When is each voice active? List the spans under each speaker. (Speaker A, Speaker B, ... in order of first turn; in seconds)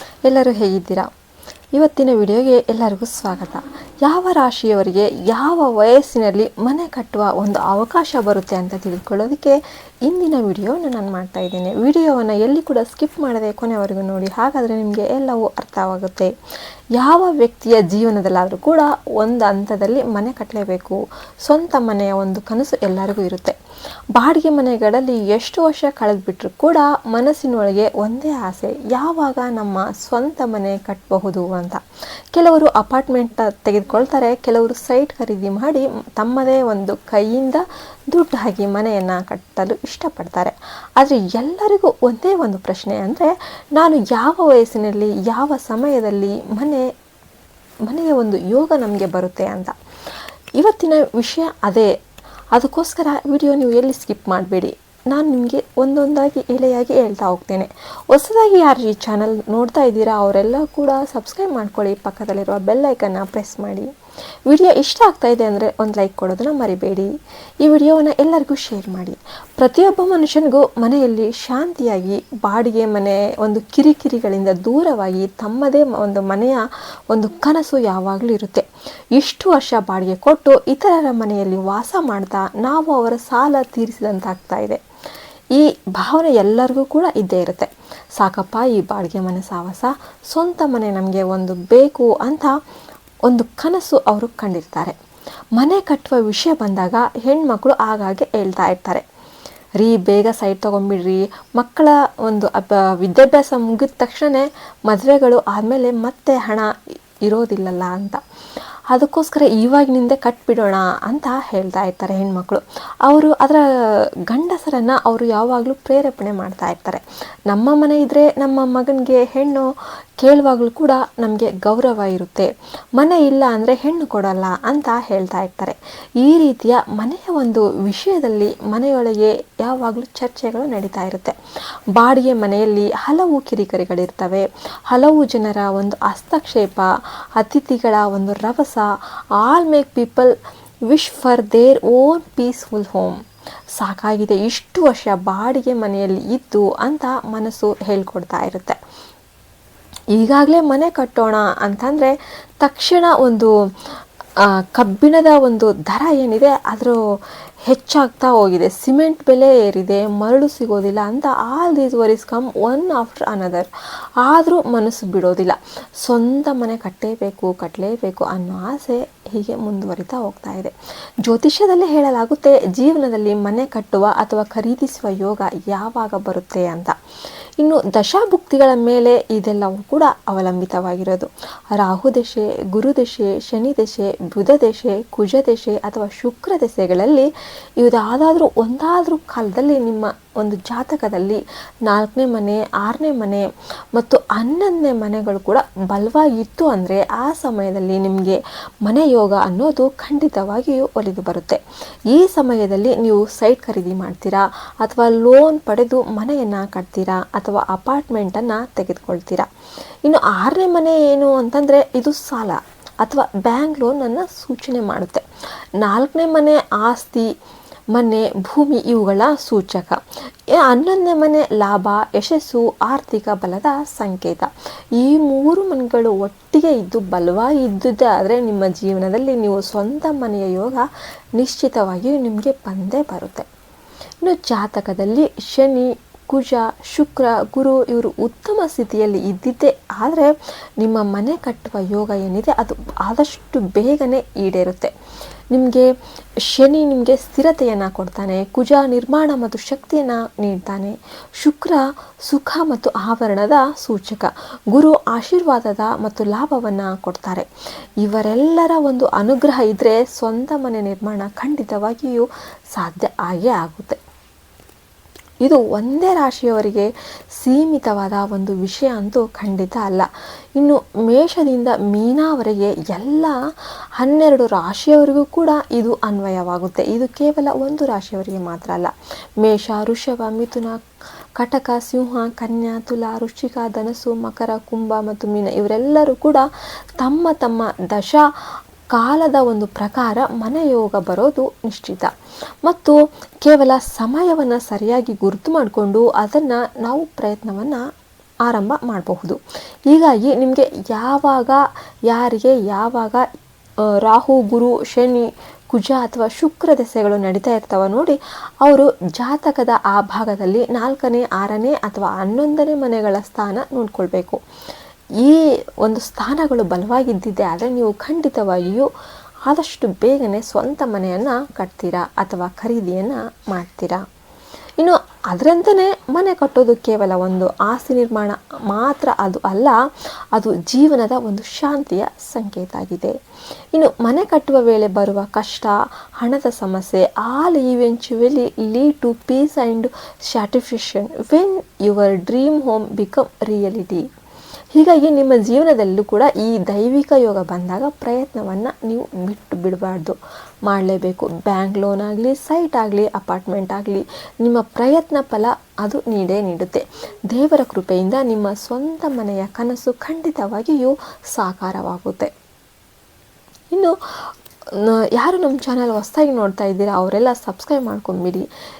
Speaker A: 0.2-1.1, 1.7-16.3, 16.9-23.6, 24.1-31.8, 32.3-46.9, 47.9-49.8, 50.6-51.9, 52.5-63.9, 64.5-84.8, 85.5-92.5, 93.3-95.0, 95.6-99.0, 99.8-106.7, 107.2-108.2, 108.9-113.7, 114.3-119.7, 120.2-131.4, 131.9-140.3, 140.9-143.2, 143.8-148.8, 150.1-157.0, 157.6-163.7, 164.2-177.0, 177.6-209.5, 210.0-215.2, 215.8-217.3, 217.9-220.0, 220.5-233.5, 234.2-244.9, 245.5-257.5, 258.0-264.0, 265.4-273.4, 274.0-280.8, 281.4-286.5, 287.0-288.3, 288.9-292.1, 292.6-297.8, 298.4-303.3, 304.0-314.4, 315.2-318.9, 319.5-324.0, 324.8-329.8, 330.3-333.2, 333.7-344.1, 344.7-362.3, 363.7-368.5